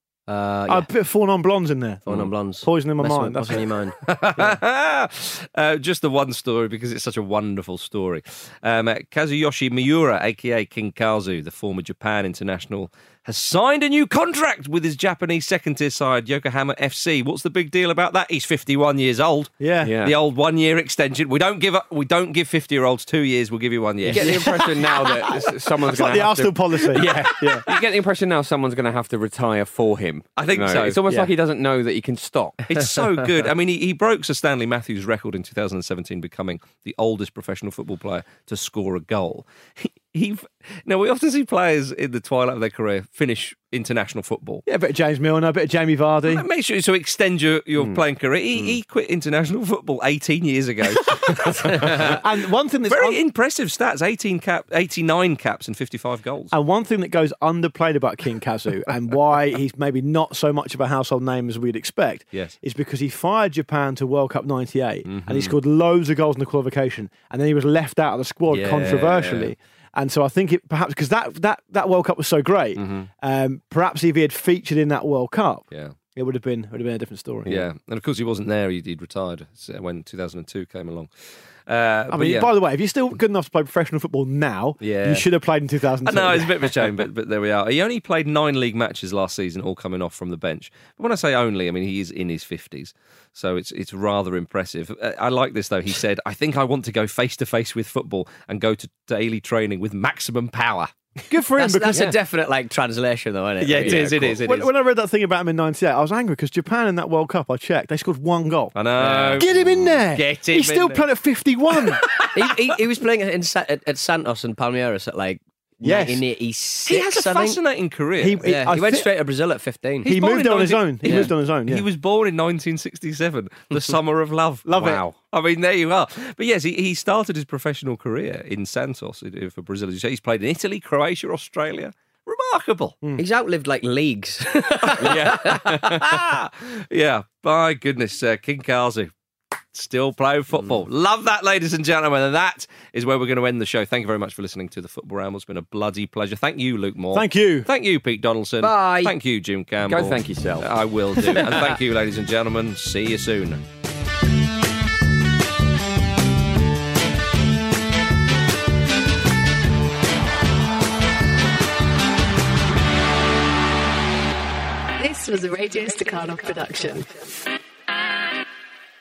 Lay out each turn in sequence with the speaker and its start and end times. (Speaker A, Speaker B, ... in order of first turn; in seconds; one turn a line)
Speaker A: 0.3-0.9
Speaker B: 0.7-3.6
Speaker A: 2.0-4.6
Speaker C: 4.1-24.5
Speaker B: 19.6-19.9
Speaker D: 19.8-20.1
Speaker D: 24.1-32.6
Speaker A: 24.1-24.5
Speaker B: 24.2-27.7
Speaker A: 30.4-31.0
Speaker C: 32.7-44.6
Speaker B: 44.7-46.5
Speaker C: 46.3-52.2
Speaker B: 51.8-53.2
Speaker C: 52.9-56.5
Speaker B: 56.5-77.5
Speaker C: 65.1-65.5
Speaker C: 68.5-69.5
Speaker C: 77.5-82.5
Speaker B: 82.1-87.0
Speaker C: 84.8-85.2
Speaker C: 86.0-100.9
Speaker B: 101.3-102.2
Speaker A: 101.6-104.3
Speaker C: 103.6-104.7
Speaker B: 103.9-108.7
Speaker C: 108.7-109.5
Speaker A: 109.0-109.4
Speaker B: 109.3-112.1
Speaker C: 110.1-111.0
Speaker C: 112.0-112.3
Speaker A: 112.3-117.6
Speaker B: 115.8-116.2
Speaker C: 116.9-118.4
Speaker B: 118.2-119.1
Speaker A: 118.4-120.1
Speaker C: 120.0-133.0
Speaker B: 120.0-121.8
Speaker B: 124.7-125.0
Speaker A: 133.2-136.0
Speaker C: 134.8-139.1
Speaker C: 139.7-153.6
Speaker B: 147.1-147.7
Speaker A: 148.6-149.1
Speaker D: 149.8-150.7
Speaker E: 165.0-167.1